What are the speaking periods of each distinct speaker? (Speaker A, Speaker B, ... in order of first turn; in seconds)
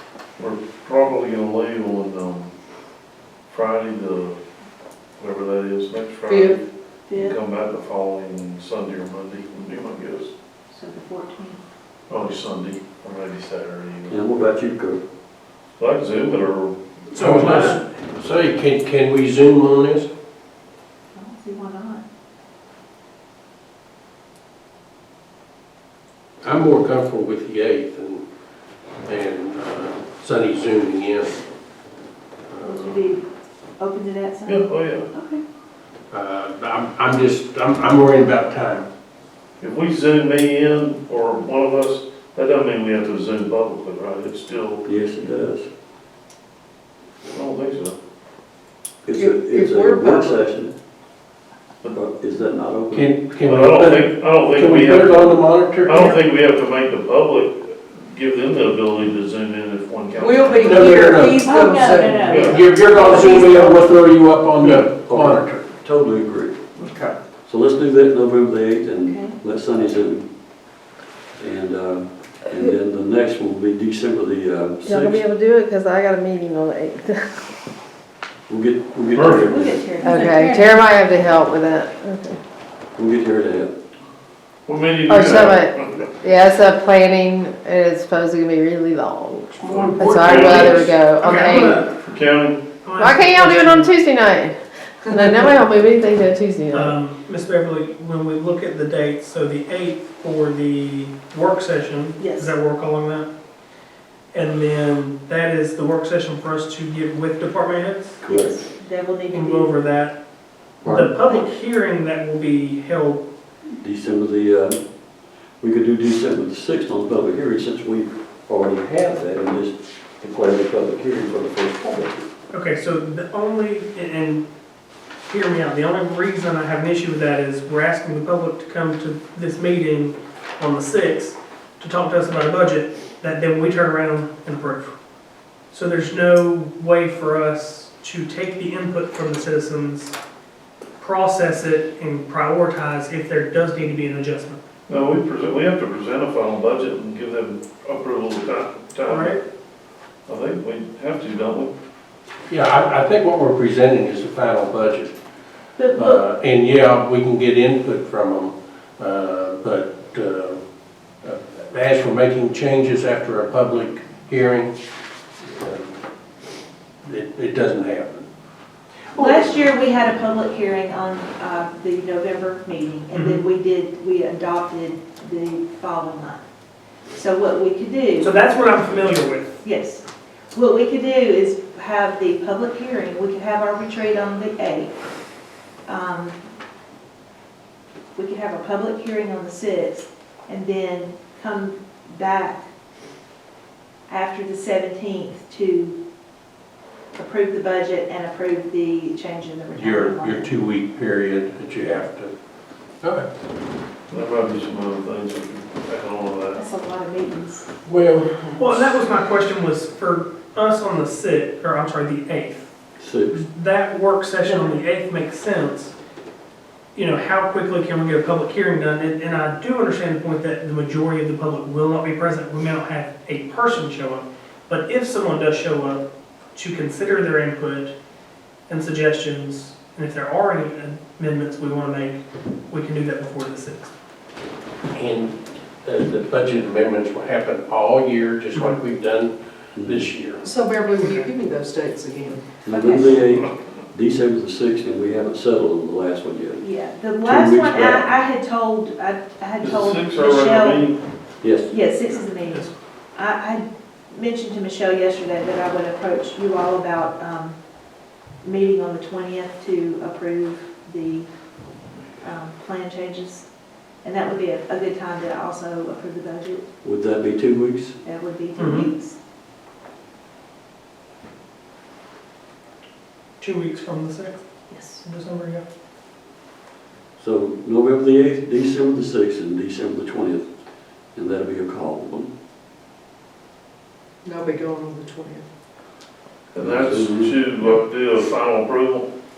Speaker A: 0.4-2.5, 3.5-4.4, 5.2-6.6, 7.1-10.3, 12.1-14.2, 15.8-17.8, 34.5-35.1, 39.6-44.8, 47.3-47.9, 53.4-60.9, 62.2-62.7, 84.7-86.1, 89.6-91.2, 91.9-92.7, 144.9-149.4, 150.3-151.7, 204.1-206.6, 249.6-251.0, 286.5-289.1
Speaker B: 6.3-6.5, 49.1-50.4, 60.2-62.3, 63.0-63.9, 66.8-67.1, 80.0-80.8, 240.4-242.4, 284.2-285.4
Speaker C: 7.1-7.4, 10.7-11.6, 21.1-22.0, 32.6-33.2, 33.8-35.4, 61.4-63.5, 69.0-69.3, 79.2-80.5, 102.2-102.6, 108.2-109.7, 155.8-156.2, 169.1-176.4, 177.1-178.9, 179.6-184.9, 185.8-186.4, 188.1-192.6, 194.1-196.0, 197.1-200.5, 206.6-207.7, 214.4-214.8, 242.7-243.3, 246.6-250.9, 251.7-257.6, 258.4-261.3, 262.2-263.4, 264.0-266.6, 268.0-269.1, 274.7-275.0
Speaker D: 14.1-15.0, 44.8-45.7, 49.0-50.7, 51.9-53.1, 64.6-66.6, 67.5-70.3, 71.4-75.2, 78.5-79.8, 83.0-83.7, 108.2-108.5, 110.8-111.1, 113.8-114.8, 115.6-122.2, 213.0-213.4, 239.8-240.1, 242.6-246.6, 247.2-248.1, 251.4-251.7, 266.8-267.9, 277.2-280.4, 281.1-282.3, 286.6-287.5
Speaker E: 17.1-17.8, 89.6-91.9, 92.8-93.9, 96.7-103.3, 104.3-108.2, 109.3-110.2, 110.8-113.2, 122.5-124.4, 125.3-134.9, 135.7-140.1, 141.0-144.6, 149.1-149.4, 169.2-169.4, 173.1-173.4, 178.2-179.5, 208.6-212.7, 213.3-215.9, 216.9-227.9, 228.7-233.9, 241.0-241.3, 252.1-252.7, 268.6-268.9, 273.4-274.4, 275.0-275.6
Speaker F: 17.2-20.1, 26.4-28.2, 29.1-31.4, 32.5-32.8, 36.1-38.9, 52.9-56.1, 60.5-61.5, 62.4-65.6, 152.5-155.1, 155.9-160.6, 161.2-164.7, 165.4-165.9, 167.0-168.2, 199.7-202.3, 207.8-208.7, 234.9-240.4
Speaker G: 74.8-77.5, 80.0-82.4, 85.1-91.9, 93.0-97.0